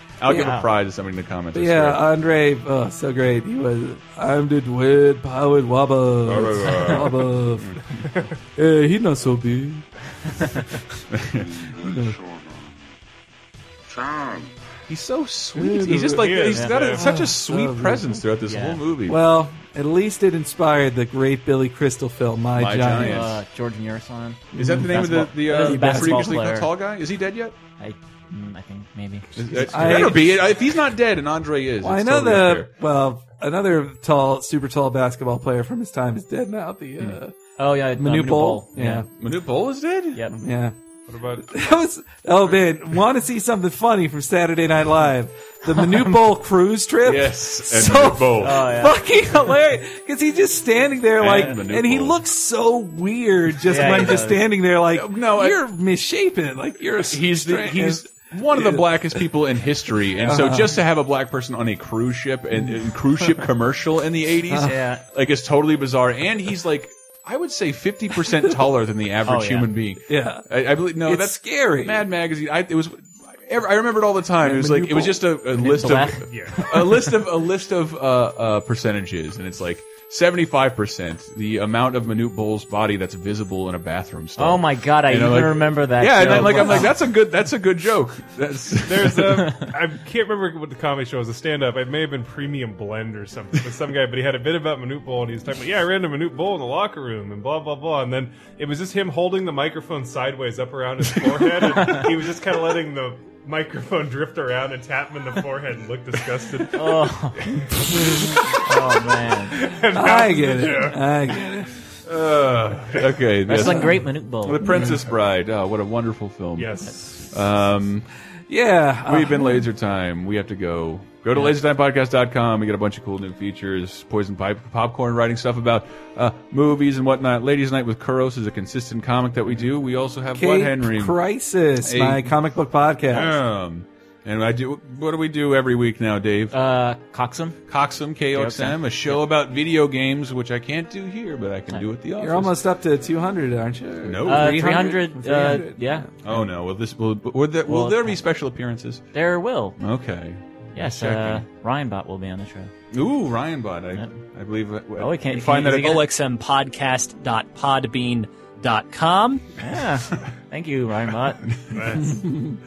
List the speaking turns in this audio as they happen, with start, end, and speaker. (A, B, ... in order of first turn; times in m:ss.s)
0:00.2-0:02.0 A
0:00.3-0:00.6 B
0:00.3-0:00.5 C
0:01.5-0:07.7 C
0:06.2-0:08.0 A
0:08.6-0:09.8 C
0:11.1-0:11.6 A
0:11.8-0:12.2 C
0:14.9-0:19.2 A
0:15.5-0:18.2 C
0:16.2-0:17.1 D
0:18.5-0:18.8 B
0:19.0-0:23.2 C
0:22.6-0:23.4 A
0:23.0-0:26.7 B
0:24.5-0:26.2 C
0:24.6-0:27.5 A
0:27.8-0:30.1 B
0:29.4-0:32.7 A
0:29.7-0:30.4 C
0:31.8-0:37.3 C
0:37.6-0:39.0 B
0:37.9-0:39.1 C
0:39.2-0:40.2 A
0:40.3-0:40.7 C
0:41.1-0:41.5 D
0:41.4-0:58.9 C
0:47.0-0:48.6 A
0:48.4-0:49.0 B
0:51.2-0:52.2 A
0:53.7-0:54.4 B
0:54.9-0:55.6 A
0:57.0-1:29.5 A
1:00.2-1:00.8 C
1:04.5-1:04.7 C
1:04.6-1:05.0 B
1:09.2-1:09.7 B
1:10.1-1:10.4 C
1:11.0-1:12.0 C
1:14.4-1:15.2 C
1:15.6-1:16.7 B
1:16.3-1:16.6 D
1:24.4-1:26.9 B
1:26.2-1:26.9 C
1:28.8-1:47.0 D
1:46.7-1:47.5 B
1:47.8-1:48.6 D
1:48.6-1:49.6 B
1:49.6-1:51.0 D
1:49.9-1:51.7 C
1:52.0-1:58.0 A
1:53.4-1:54.6 B
1:53.6-1:54.0 C
1:54.6-1:55.0 C
1:56.6-1:57.0 D
1:58.5-1:59.6 C
1:59.1-2:11.2 A
2:10.3-2:13.4 C
2:11.8-2:12.3 A
2:13.1-2:16.5 A
2:16.5-2:17.6 B
2:17.7-2:22.6 A
2:18.3-2:19.2 B
2:22.2-2:26.1 C
2:24.0-2:24.9 A
2:24.2-2:26.4 B
2:26.2-2:29.0 A
2:27.6-2:28.2 B
2:29.1-2:29.8 B
2:29.8-2:31.4 A
2:30.7-2:32.7 B
2:32.9-2:36.0 A
2:35.0-2:36.0 B
2:35.8-2:39.4 E
2:39.6-2:41.8 B
2:41.7-2:42.2 D